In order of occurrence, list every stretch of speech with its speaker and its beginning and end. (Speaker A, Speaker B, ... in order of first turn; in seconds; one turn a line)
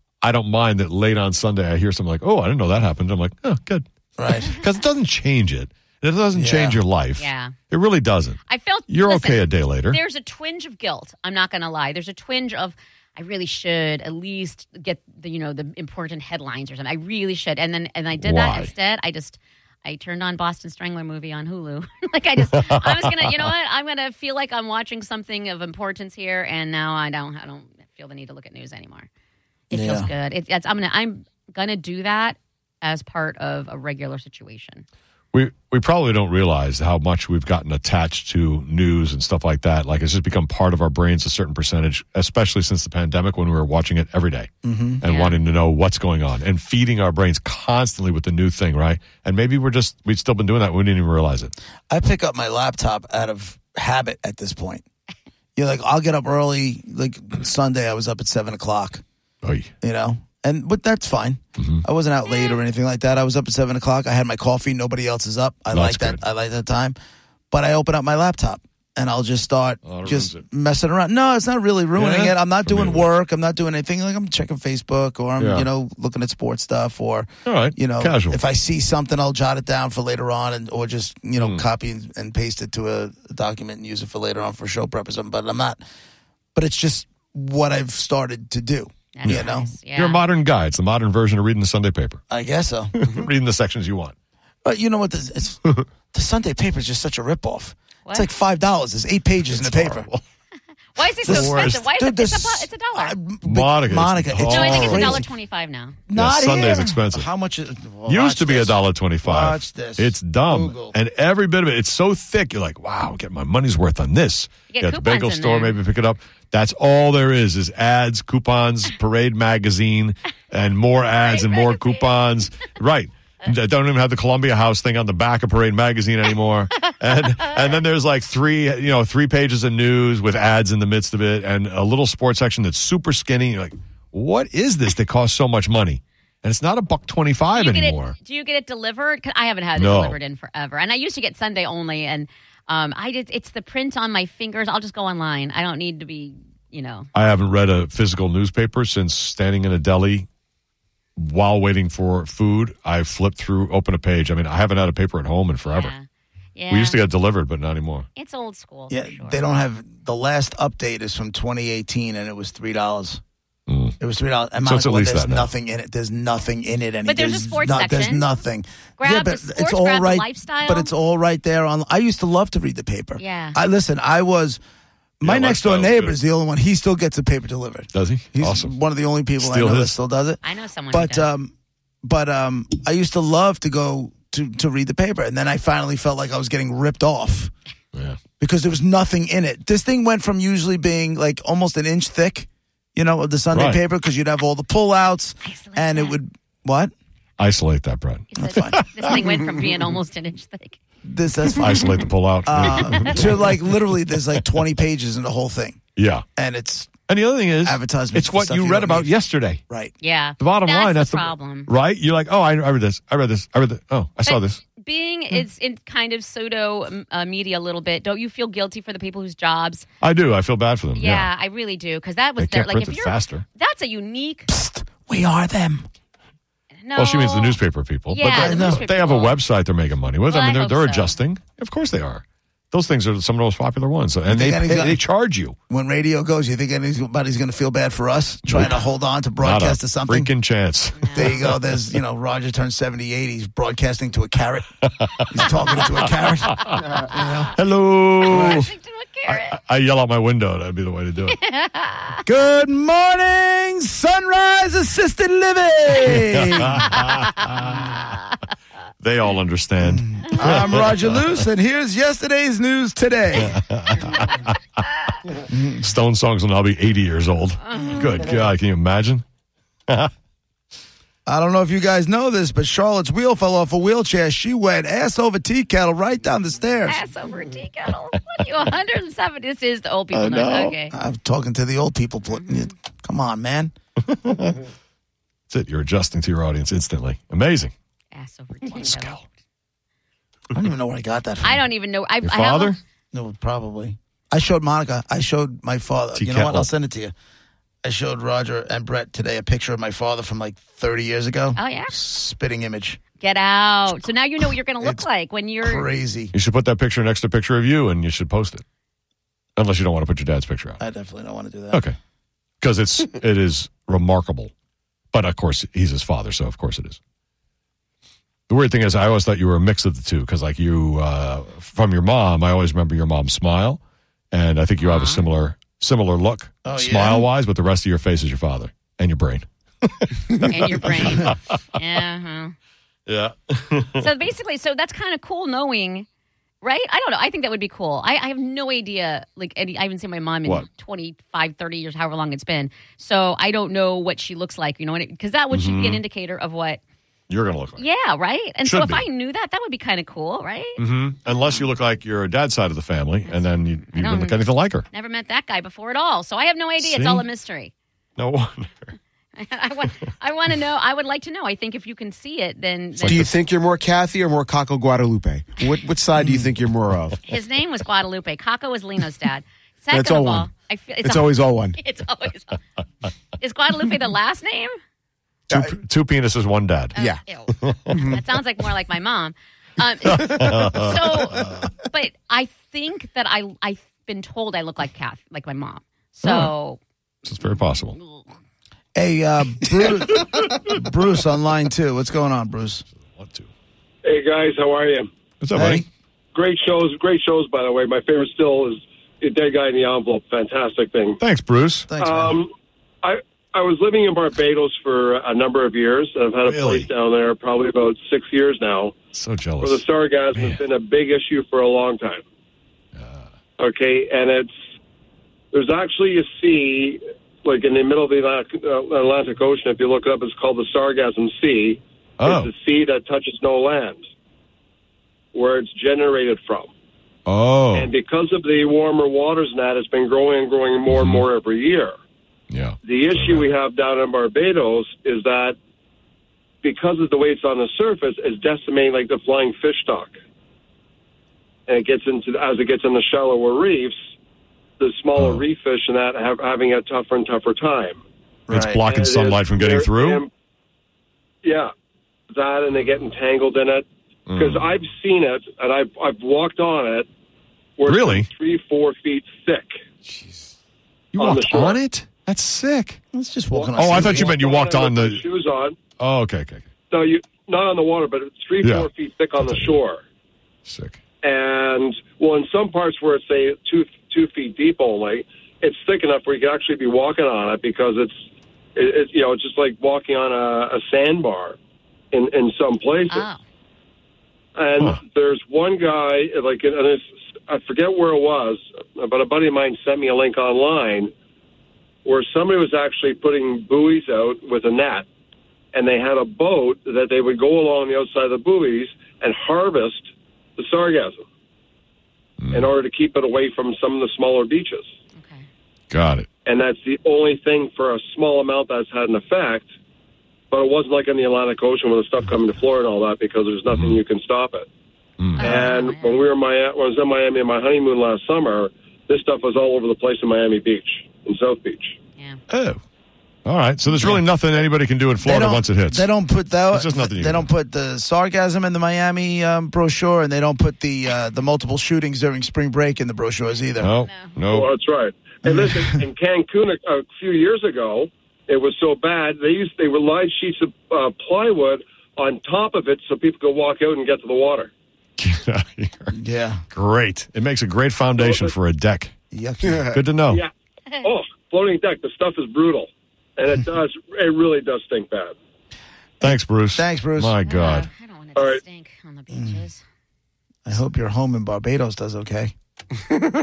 Speaker A: 0.2-3.9
Speaker B: 4.2-4.6
Speaker A: 4.5-10.0
Speaker B: 6.3-6.8
Speaker C: 7.2-7.5
Speaker C: 8.5-29.1
Speaker A: 18.2-18.7
Speaker A: 22.5-23.4
Speaker C: 29.7-34.9
Speaker B: 29.7-30.1
Speaker A: 35.3-51.5
Speaker B: 44.6-45.0
Speaker C: 45.0-45.4
Speaker B: 51.9-54.8
Speaker B: 55.6-59.0
Speaker A: 59.4-59.7
Speaker B: 59.8-67.0
Speaker A: 61.6-61.8
Speaker C: 62.3-62.5
Speaker A: 65.7-66.2
Speaker B: 67.5-85.8
Speaker A: 69.8-70.5
Speaker A: 72.0-73.1
Speaker A: 75.4-75.7
Speaker A: 77.5-78.4
Speaker A: 81.4-81.6
Speaker B: 86.5-89.7
Speaker C: 89.2-90.2
Speaker A: 89.2-92.2
Speaker B: 92.3-93.1
Speaker A: 93.0-94.2
Speaker B: 94.6-100.1
Speaker A: 99.5-100.2
Speaker C: 101.0-103.2
Speaker A: 101.2-101.8
Speaker B: 101.2-105.3
Speaker A: 103.4-105.2
Speaker C: 104.5-106.0
Speaker B: 106.1-111.0
Speaker A: 106.1-107.3
Speaker A: 108.1-138.2
Speaker C: 114.7-115.7
Speaker C: 121.2-122.1
Speaker C: 137.5-147.1
Speaker A: 139.8-140.2
Speaker A: 147.1-150.3
Speaker A: 151.2-155.9
Speaker C: 155.7-156.0
Speaker C: 156.6-157.0
Speaker A: 156.7-158.1
Speaker C: 158.2-159.4
Speaker B: 158.9-163.2
Speaker A: 163.7-164.0
Speaker B: 164.0-174.6
Speaker A: 164.6-165.5
Speaker C: 167.1-168.3
Speaker C: 169.0-170.9
Speaker C: 173.2-173.6
Speaker B: 175.2-187.5
Speaker A: 175.2-176.2
Speaker A: 177.9-178.8
Speaker A: 179.4-179.9
Speaker C: 180.4-181.3
Speaker A: 187.9-188.2
Speaker B: 188.4-196.9
Speaker A: 193.5-193.8
Speaker C: 195.4-196.2
Speaker A: 197.4-199.3
Speaker C: 198.3-200.8
Speaker B: 198.4-198.8
Speaker B: 201.0-205.8
Speaker A: 201.6-203.6
Speaker A: 206.0-206.2
Speaker B: 206.4-206.9
Speaker A: 207.1-209.6
Speaker B: 207.6-209.1
Speaker C: 210.0-211.7
Speaker A: 210.4-214.6
Speaker C: 214.3-219.9
Speaker A: 220.0-221.3
Speaker C: 220.9-224.5
Speaker A: 222.4-223.4
Speaker B: 224.5-225.9
Speaker C: 226.8-227.6
Speaker A: 227.0-235.6
Speaker C: 228.1-229.4
Speaker B: 228.3-228.8
Speaker C: 230.3-231.1
Speaker B: 234.3-235.0
Speaker B: 235.7-240.3
Speaker A: 238.5-238.8
Speaker C: 238.6-239.0
Speaker A: 239.4-241.8
Speaker C: 241.0-241.5
Speaker B: 241.1-244.7
Speaker A: 244.8-245.5
Speaker B: 245.2-247.5
Speaker C: 246.9-247.6
Speaker A: 247.5-248.7
Speaker C: 248.3-249.6
Speaker A: 249.3-251.4
Speaker C: 251.3-252.3
Speaker B: 252.3-256.9
Speaker A: 256.1-258.0
Speaker C: 256.8-258.4
Speaker A: 259.0-261.4
Speaker B: 259.8-263.6
Speaker C: 260.3-260.8
Speaker A: 263.4-264.6
Speaker B: 265.5-265.9
Speaker A: 265.8-269.2
Speaker C: 267.7-268.1
Speaker B: 271.3-277.0
Speaker C: 276.9-280.9
Speaker A: 280.1-280.8
Speaker B: 280.9-283.7
Speaker C: 282.3-282.7
Speaker A: 284.1-284.6
Speaker A: 285.5-287.7
Speaker C: 288.1-289.3
Speaker A: 288.7-289.2
Speaker B: 290.5-291.6
Speaker C: 291.4-292.8
Speaker A: 292.2-292.8
Speaker B: 293.1-297.1
Speaker A: 296.2-296.7
Speaker B: 297.8-303.0
Speaker C: 301.6-301.9
Speaker C: 303.2-305.9
Speaker B: 305.6-306.3
Speaker A: 306.3-308.6
Speaker A: 309.6-310.8
Speaker B: 310.8-311.8
Speaker A: 311.7-312.0
Speaker A: 312.6-314.5
Speaker A: 315.1-317.0
Speaker A: 318.5-323.8
Speaker A: 324.3-331.4
Speaker C: 324.8-325.2
Speaker B: 326.6-327.2
Speaker C: 330.4-332.6
Speaker A: 333.1-334.1
Speaker C: 334.0-336.1
Speaker C: 336.6-346.8
Speaker A: 345.5-346.0
Speaker A: 347.3-347.8
Speaker C: 347.8-350.8
Speaker A: 348.6-349.1
Speaker A: 350.8-354.9
Speaker C: 353.3-357.7
Speaker A: 356.8-357.2
Speaker A: 358.2-358.9
Speaker C: 359.4-363.4
Speaker A: 363.0-363.3
Speaker D: 363.1-367.2
Speaker C: 367.3-372.6
Speaker D: 369.9-370.5
Speaker D: 371.0-371.8
Speaker C: 373.4-374.8
Speaker A: 375.5-376.9
Speaker D: 376.9-377.2
Speaker C: 376.9-386.8
Speaker A: 377.6-378.0
Speaker D: 377.9-378.2
Speaker A: 380.1-381.6
Speaker A: 386.2-386.5
Speaker A: 387.2-388.0
Speaker C: 387.4-388.2
Speaker B: 388.9-392.8
Speaker A: 393.0-393.5
Speaker E: 394.0-395.1
Speaker A: 395.4-395.9
Speaker B: 395.5-395.9
Speaker E: 396.4-401.2
Speaker A: 401.2-401.9
Speaker B: 401.9-402.4
Speaker E: 402.0-402.5
Speaker E: 403.0-408.9
Speaker A: 406.4-406.9
Speaker A: 409.1-409.8
Speaker E: 409.6-412.2
Speaker A: 410.3-410.6
Speaker A: 412.9-413.3
Speaker E: 413.6-414.5
Speaker E: 415.5-424.0
Speaker A: 422.2-422.5
Speaker E: 425.3-426.7
Speaker A: 427.3-427.9
Speaker E: 427.7-431.9
Speaker A: 430.9-431.2
Speaker A: 432.5-433.5
Speaker E: 432.8-435.6
Speaker E: 436.6-440.2
Speaker E: 441.7-443.9
Speaker E: 444.8-448.0
Speaker A: 445.2-445.4
Speaker B: 448.5-448.8
Speaker A: 448.5-450.2
Speaker E: 448.8-450.3
Speaker E: 451.4-451.7
Speaker E: 452.3-457.1
Speaker A: 454.3-454.7
Speaker E: 457.8-459.7
Speaker A: 457.9-458.3
Speaker A: 460.1-460.3
Speaker A: 461.1-463.0
Speaker E: 461.2-461.8
Speaker B: 463.1-464.4
Speaker E: 463.5-465.8
Speaker A: 463.8-465.2
Speaker A: 466.0-466.7
Speaker E: 466.9-470.0
Speaker A: 468.6-469.8
Speaker A: 470.7-471.0
Speaker E: 471.2-478.2
Speaker E: 478.8-481.6
Speaker E: 482.1-483.3
Speaker C: 483.1-483.4
Speaker E: 484.6-491.1
Speaker E: 492.1-495.1
Speaker E: 495.7-501.2
Speaker A: 502.4-502.7
Speaker E: 502.5-504.9
Speaker C: 505.1-505.5
Speaker A: 505.9-506.3
Speaker E: 506.5-509.7
Speaker E: 510.5-514.7
Speaker A: 513.7-514.0
Speaker A: 515.2-515.7
Speaker C: 515.4-516.3
Speaker E: 515.4-522.0
Speaker A: 522.5-522.8
Speaker A: 523.5-526.1
Speaker B: 523.9-524.2
Speaker B: 525.2-533.9
Speaker A: 526.7-527.5
Speaker A: 533.8-534.7
Speaker C: 534.0-534.4
Speaker E: 534.5-544.7
Speaker B: 535.5-536.0
Speaker A: 545.2-546.1
Speaker B: 546.1-546.6
Speaker A: 546.7-549.1
Speaker E: 548.2-548.5
Speaker B: 549.3-549.9
Speaker D: 549.6-550.0
Speaker A: 549.9-550.4
Speaker E: 551.0-555.4
Speaker B: 556.2-557.4
Speaker A: 556.2-557.9
Speaker C: 557.5-559.8
Speaker E: 558.4-558.6
Speaker B: 559.3-559.6
Speaker B: 560.6-562.5